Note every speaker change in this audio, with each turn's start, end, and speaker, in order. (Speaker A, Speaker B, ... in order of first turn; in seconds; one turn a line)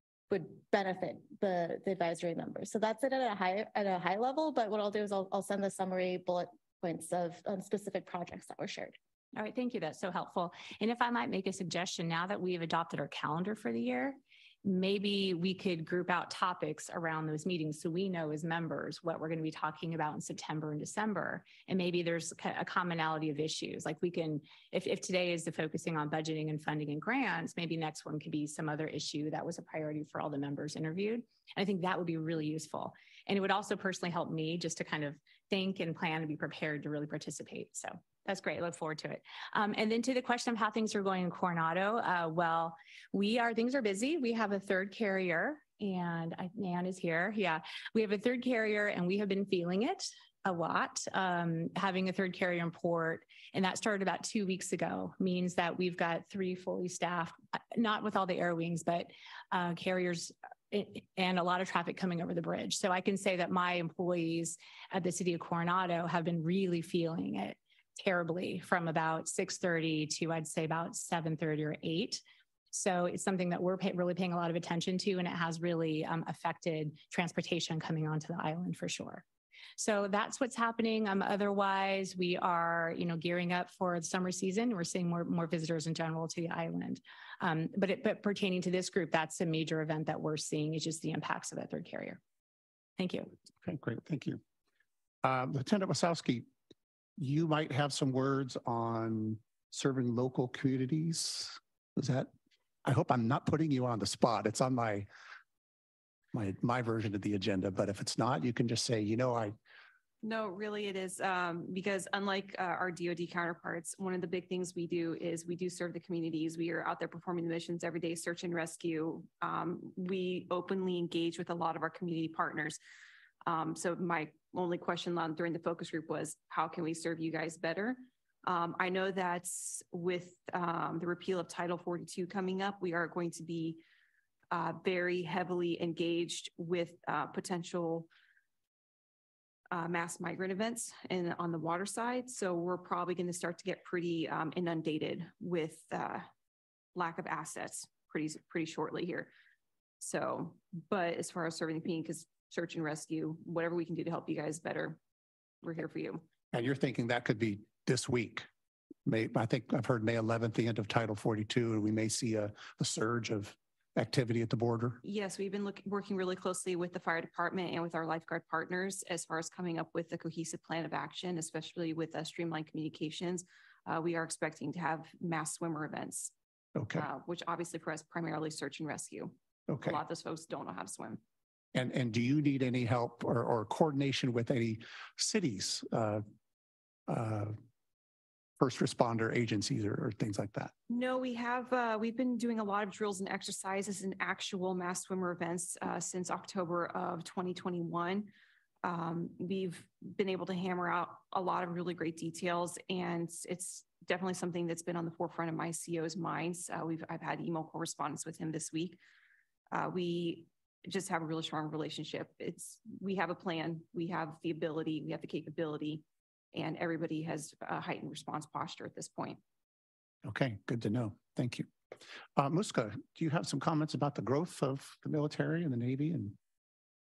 Speaker A: 0.3-9.0
Speaker B: 9.3-79.2
Speaker B: 79.8-92.2
Speaker B: 93.0-93.3
Speaker C: 93.6-94.4
Speaker C: 95.2-96.5
Speaker C: 97.2-102.3
Speaker C: 102.8-105.1
Speaker C: 106.3-109.5
Speaker D: 110.2-122.8
Speaker D: 123.5-133.8
Speaker D: 134.5-138.1
Speaker D: 139.7-146.3
Speaker D: 146.9-149.3
Speaker D: 150.0-155.0
Speaker D: 155.6-156.3
Speaker C: 156.5-158.5
Speaker C: 159.1-165.0
Speaker D: 165.0-176.3
Speaker C: 176.8-177.1
Speaker D: 176.9-181.2
Speaker C: 179.7-180.0
Speaker C: 181.7-186.2
Speaker C: 187.1-187.6
Speaker C: 188.6-190.7
Speaker D: 190.9-198.3
Speaker D: 198.8-209.0
Speaker D: 209.7-219.4
Speaker C: 220.2-221.7
Speaker C: 222.4-226.4